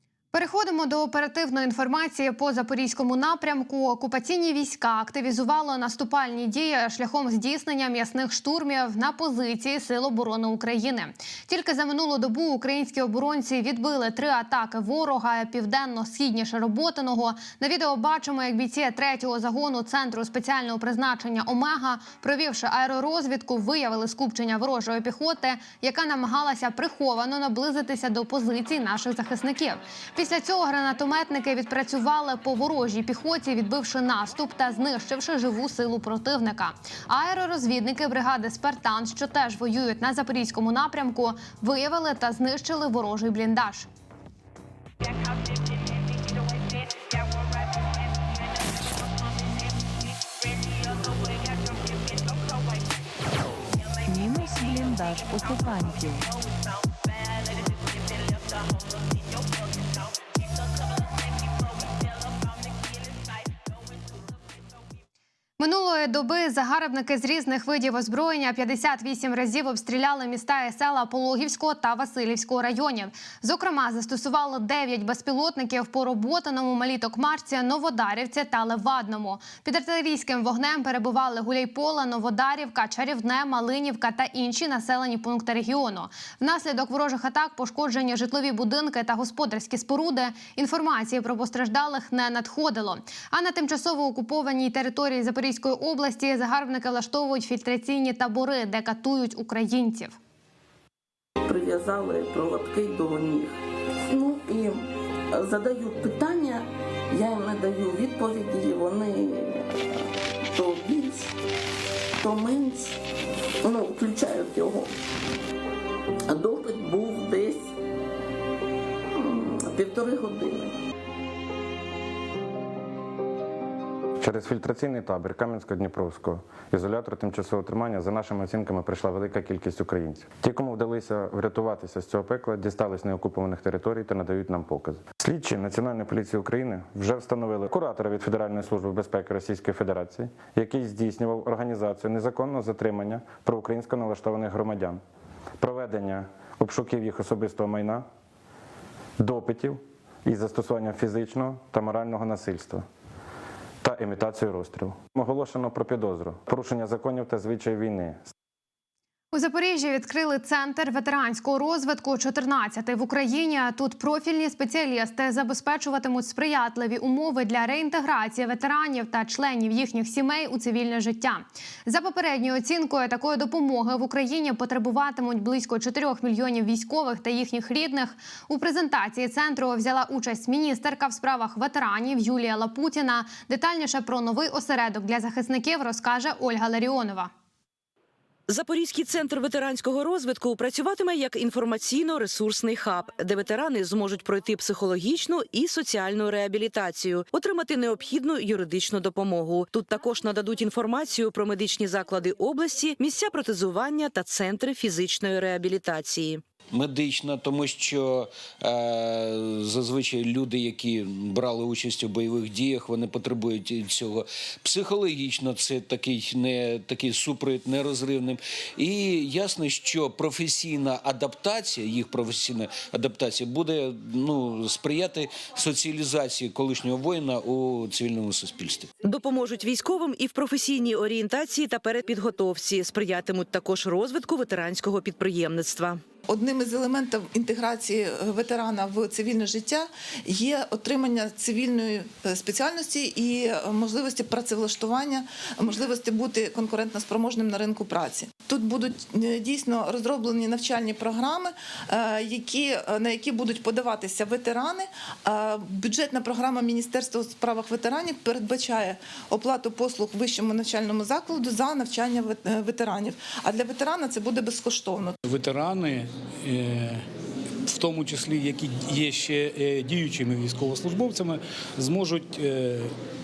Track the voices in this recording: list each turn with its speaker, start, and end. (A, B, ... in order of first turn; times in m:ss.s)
0:00.3-0:43.9 A
0:54.1-0:56.1 B
1:05.6-1:40.1 A
1:41.4-1:49.8 C
1:50.5-1:51.3 C
1:52.2-1:53.0 C
1:53.6-1:54.9 C
1:56.3-1:57.7 C
1:59.2-2:00.7 C
2:04.2-2:25.0 D
2:25.6-2:28.0 D
2:29.2-2:32.8 D
2:33.8-2:38.2 D
2:39.3-3:07.3 A
3:08.5-3:26.4 E
3:26.7-3:48.9 F
3:49.0-3:56.0 E
3:56.3-4:25.2 G
4:25.2-4:27.0 H
4:27.6-4:32.9 H